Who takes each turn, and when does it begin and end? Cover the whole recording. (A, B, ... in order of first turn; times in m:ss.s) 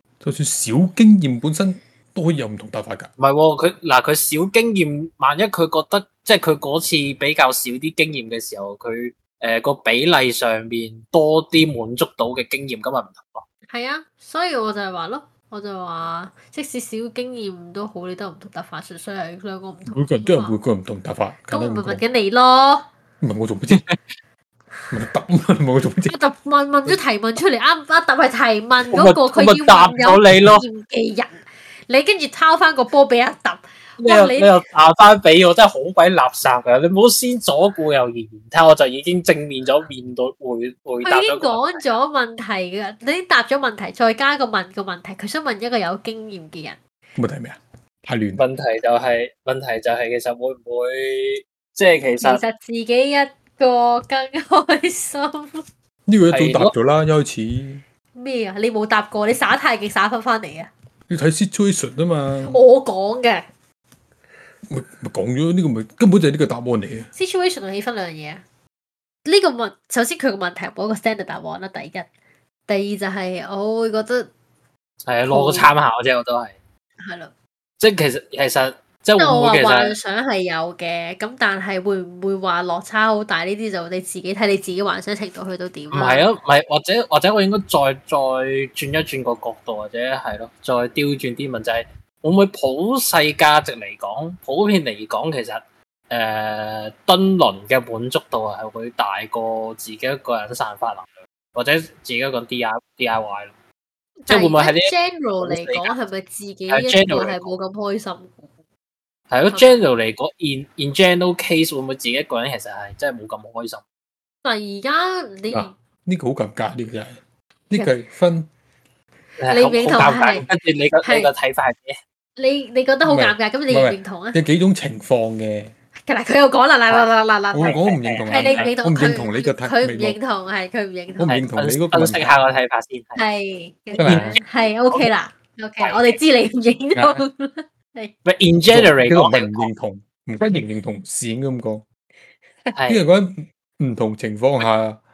0:00.2-0:03.1 A
0:03.2-0:13.4 B
0:13.7-0:20.6 C
0:19.9-0:22.0 A
0:21.5-0:22.9 C
0:23.2-0:23.8 A
0:24.9-0:26.2 A
0:26.1-0:34.6 C
0:28.9-0:30.6 B
0:34.0-0:41.9 B
0:41.0-0:46.8 C
0:47.2-0:48.4 A
0:48.4-0:52.4 B
0:52.2-0:55.6 C
0:56.1-0:57.8 A
0:56.3-0:56.7 B
0:58.2-1:00.7 C
1:01.1-1:02.6 A
1:02.4-1:03.5 C
1:04.7-1:07.1 A
1:07.2-1:08.4 C
1:09.2-1:12.1 C
1:12.7-1:14.3 C
1:15.1-1:16.6 B
1:15.3-1:15.7 C
1:17.0-1:17.3 C
1:17.8-1:20.0 B
1:19.2-1:26.3 C
1:25.9-1:43.5 B
1:44.2-1:48.5 C
1:44.3-1:46.0 B
1:46.7-1:47.5 B
1:49.3-1:53.8 B
1:49.5-1:49.8 C
1:54.4-1:55.7 C
1:55.5-1:58.5 A
1:59.4-2:02.0 B
1:59.5-2:00.5 C
2:01.0-2:01.3 C
2:02.4-2:04.4 C
2:03.0-2:05.7 A
2:06.1-2:11.5 C
2:07.5-2:10.2 A
2:07.6-2:08.7 B
2:11.2-2:12.4 A
2:11.6-2:13.2 B
2:13.2-2:18.1 C
2:14.0-2:14.4 A
2:14.0-2:14.4 B
2:15.8-2:16.2 B
2:17.0-2:17.2 A
2:18.2-2:19.7 B
2:18.7-2:21.8 A
2:22.8-2:23.0 B
2:22.9-2:25.0 A